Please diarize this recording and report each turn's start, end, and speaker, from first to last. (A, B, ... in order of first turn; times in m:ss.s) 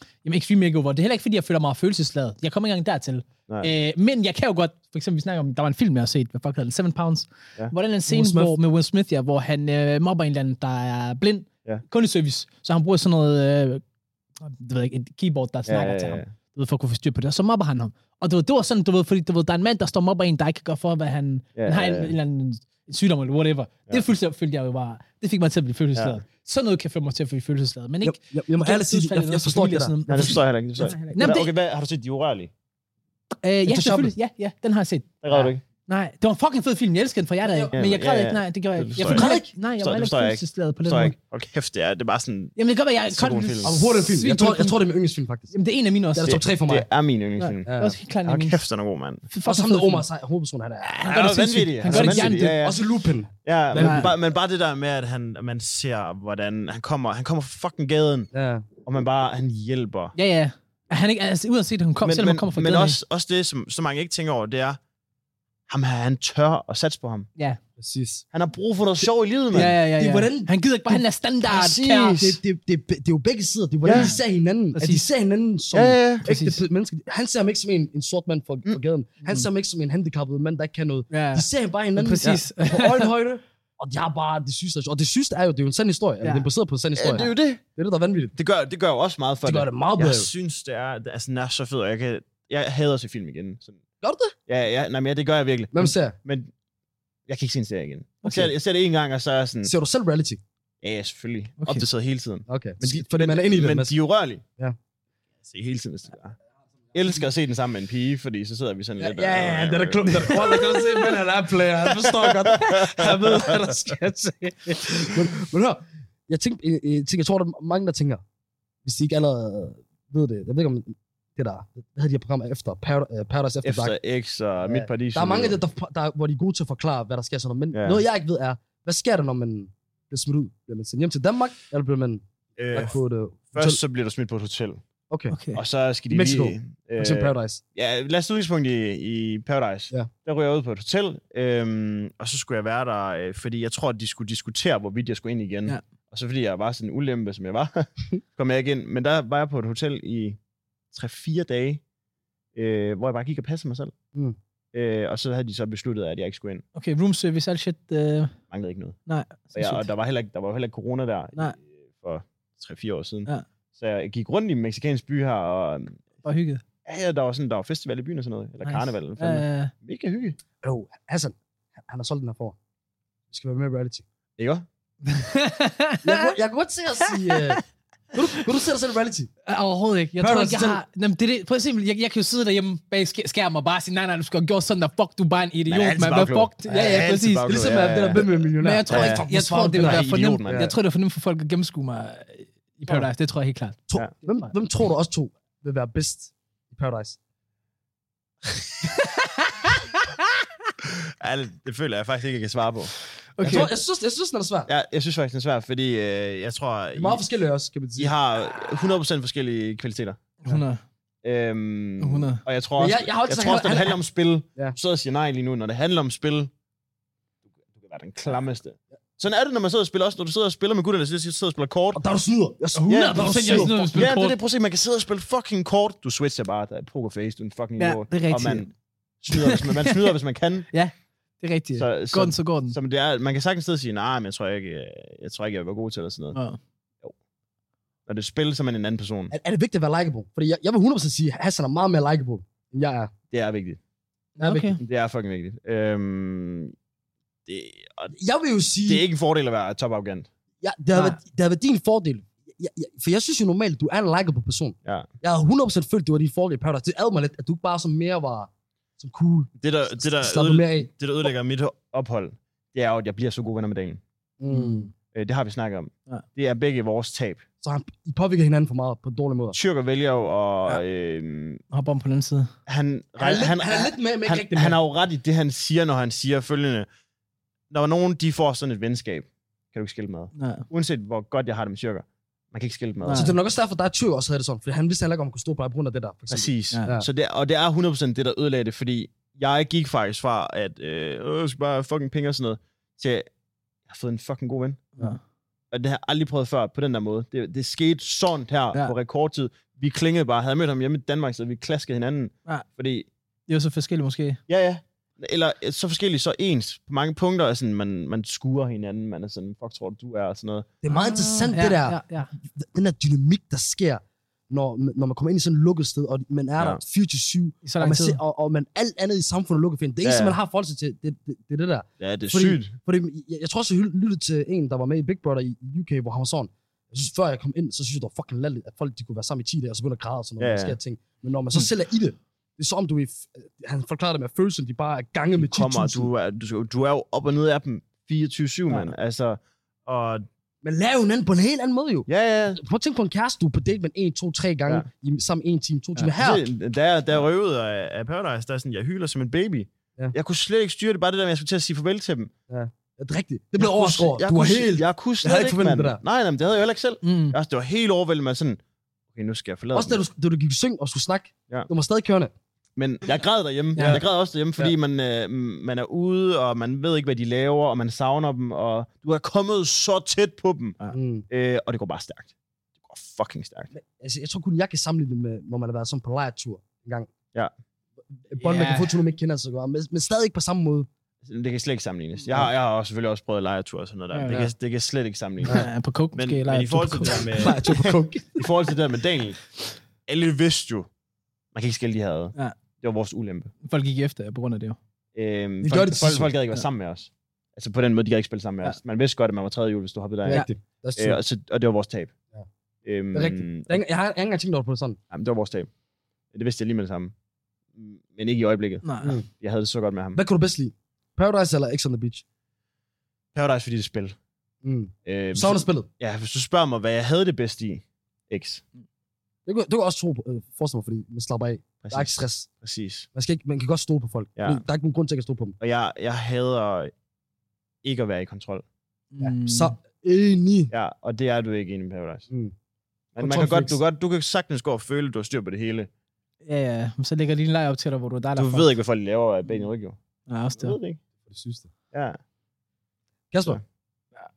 0:00.2-0:13.8 A
0:08.1-0:08.6 B
0:14.4-0:31.5 A
0:15.7-0:16.3 C
0:21.6-0:22.1 C
0:28.0-0:29.9 B
0:30.1-0:32.5 C
0:30.8-0:31.2 B
0:33.4-0:35.2 A
0:33.7-0:34.1 B
0:35.2-0:35.6 C
0:35.9-0:41.1 A
0:37.4-0:37.8 B
0:37.7-0:39.3 C
0:39.0-0:39.5 B
0:39.8-0:42.6 C
0:42.6-0:44.8 A
0:43.1-0:43.8 C
0:43.6-0:45.5 B
0:45.5-0:46.4 A
0:46.1-0:46.9 B
0:46.3-0:47.7 C
0:47.4-0:48.6 A
0:47.7-0:48.0 B
0:48.2-0:49.3 C
0:49.3-0:50.0 A
0:49.4-0:51.1 B
0:51.0-0:52.6 A
0:51.0-0:52.8 C
0:51.9-0:54.1 B
0:53.4-0:58.3 C
0:53.8-0:54.1 A
0:58.3-0:58.7 B
0:58.9-1:00.2 C
1:00.2-1:03.0 A
1:02.0-1:04.8 C
1:05.7-1:07.3 C
1:07.8-1:08.2 B
1:08.3-1:09.8 C
1:09.5-1:12.3 A
1:10.0-1:11.0 B
1:11.4-1:12.4 C
1:12.1-1:28.3 B
1:13.8-1:14.1 C
1:13.9-1:14.2 A
1:14.8-1:15.1 A
1:15.7-1:16.2 C
1:16.2-1:16.6 A
1:21.1-1:23.1 A
1:26.2-1:26.5 A
1:27.0-1:27.6 C
1:28.4-1:33.8 C
1:29.4-1:30.3 B
1:34.0-1:34.4 B
1:34.5-1:36.5 C
1:35.7-1:36.2 B
1:37.3-1:39.7 C
1:39.6-1:40.4 B
1:40.8-1:44.4 C
1:42.5-1:44.0 B
1:45.4-1:46.4 C
1:46.9-1:50.9 C
1:49.0-1:58.2 B
1:51.9-1:53.6 C
1:58.8-2:04.0 B
2:03.6-2:05.6 C
2:04.6-2:13.8 B
2:07.7-2:08.0 C
2:12.6-2:13.0 C
2:13.5-2:14.8 C
2:15.1-2:15.4 B
2:15.3-2:15.6 A
2:15.5-2:30.4 C
2:16.1-2:17.6 B
2:30.9-2:31.8 C
2:32.6-2:33.9 C
2:34.7-2:36.6 C
2:36.8-2:38.4 A
2:38.5-2:39.0 C
2:39.1-2:39.9 A
2:39.6-2:46.0 C
2:46.2-2:46.6 A
2:46.8-2:50.4 C
2:48.6-2:49.7 A
2:50.6-2:51.4 B
2:51.9-2:52.6 B
2:53.3-2:54.0 B
2:54.4-2:54.6 C
2:55.0-2:56.3 A
2:56.0-2:57.6 B
2:57.1-2:57.6 A
2:58.1-2:59.3 B
2:59.5-3:07.6 A
3:00.2-3:00.8 B
3:05.7-3:10.7 C
3:06.7-3:10.8 B
3:08.6-3:14.5 A
3:13.9-3:17.2 B
3:18.8-3:19.8 A
3:20.8-3:22.9 C
3:23.4-3:23.8 A
3:23.4-3:24.7 B
3:23.4-3:23.7 C
3:24.7-3:27.2 C
3:27.0-3:28.1 B
3:28.0-3:30.2 C
3:30.4-3:30.8 A
3:31.2-3:36.5 C
3:32.0-3:32.4 A
3:32.8-3:34.0 B
3:37.7-3:42.0 C
3:41.9-3:43.9 B
3:42.8-3:44.4 A
3:42.9-3:48.7 C
3:47.8-3:48.7 A
3:49.2-3:50.7 C
3:49.3-3:50.2 A
3:50.7-3:52.8 A
3:51.8-3:56.4 C
3:56.3-3:56.6 A
3:58.1-3:59.3 C
3:59.3-4:03.1 B
4:03.3-4:03.8 C
4:04.4-4:04.8 A
4:04.4-4:04.8 B
4:04.8-4:06.8 C
4:07.5-4:08.1 C
4:08.1-4:09.0 B
4:08.9-4:10.3 C
4:10.6-4:20.9 B
4:19.6-4:24.0 C
4:24.4-4:24.9 B
4:24.5-4:24.9 A
4:25.1-4:27.4 C
4:27.6-4:29.6 B
4:29.5-4:31.6 C
4:31.7-4:32.5 A
4:32.7-4:36.9 C
4:33.2-4:34.8 B
4:37.7-4:43.3 C
4:40.4-4:40.7 A
4:43.0-4:43.4 A
4:43.1-4:47.1 B
4:46.3-4:53.3 C
4:53.9-4:54.9 C
4:55.7-5:03.1 C
5:03.5-5:04.4 A
5:04.5-5:10.7 C
5:10.8-5:12.0 B
5:10.9-5:12.3 A
5:12.5-5:36.1 B
5:17.6-5:18.2 A
5:20.0-5:20.4 C
5:22.0-5:22.7 C
5:30.4-5:30.8 C
5:35.4-5:40.2 C
5:40.6-5:46.5 B
5:42.1-5:42.6 C
5:46.1-5:52.3 C
5:52.5-5:56.0 B
5:53.6-5:58.6 C
5:57.0-5:57.4 A
5:59.1-6:00.0 C
5:59.7-6:02.3 B
6:02.8-6:10.8 C
6:03.8-6:04.0 A
6:03.8-6:04.0 B
6:10.9-6:11.3 B
6:11.3-6:12.3 C
6:12.8-6:13.7 C
6:13.7-6:17.1 B
6:18.2-6:20.9 B
6:18.4-6:19.0 A
6:21.2-6:29.5 C
6:24.1-6:24.4 A
6:25.4-6:25.7 B
6:25.5-6:27.5 A
6:27.1-6:28.5 B
6:30.1-6:30.9 C
6:31.5-6:33.5 C
6:33.6-6:34.8 A
6:35.2-6:42.1 C
6:35.6-6:36.3 B
6:40.2-6:41.2 B
6:42.8-6:43.8 C
6:43.1-6:45.0 B
6:45.1-6:45.7 C
6:46.3-6:47.1 C
6:47.8-6:50.2 C
6:48.8-6:49.2 A
6:49.0-6:49.3 B
6:50.2-6:52.2 B
6:53.3-6:54.2 C
6:54.6-6:55.9 B
6:55.1-6:58.6 C
6:59.5-7:02.5 B
7:01.8-7:03.1 C
7:03.1-7:05.6 B
7:04.4-7:04.6 C
7:05.6-7:06.9 C
7:07.8-7:08.6 C
7:09.1-7:09.8 A
7:09.2-7:10.7 B
7:10.7-7:12.3 C
7:13.2-7:13.8 B
7:13.2-7:15.9 C
7:16.5-7:18.7 A
7:18.4-7:20.0 C
7:20.3-7:20.8 A
7:20.6-7:21.0 C
7:21.2-7:21.7 B
7:21.9-7:22.2 C
7:23.3-7:23.6 B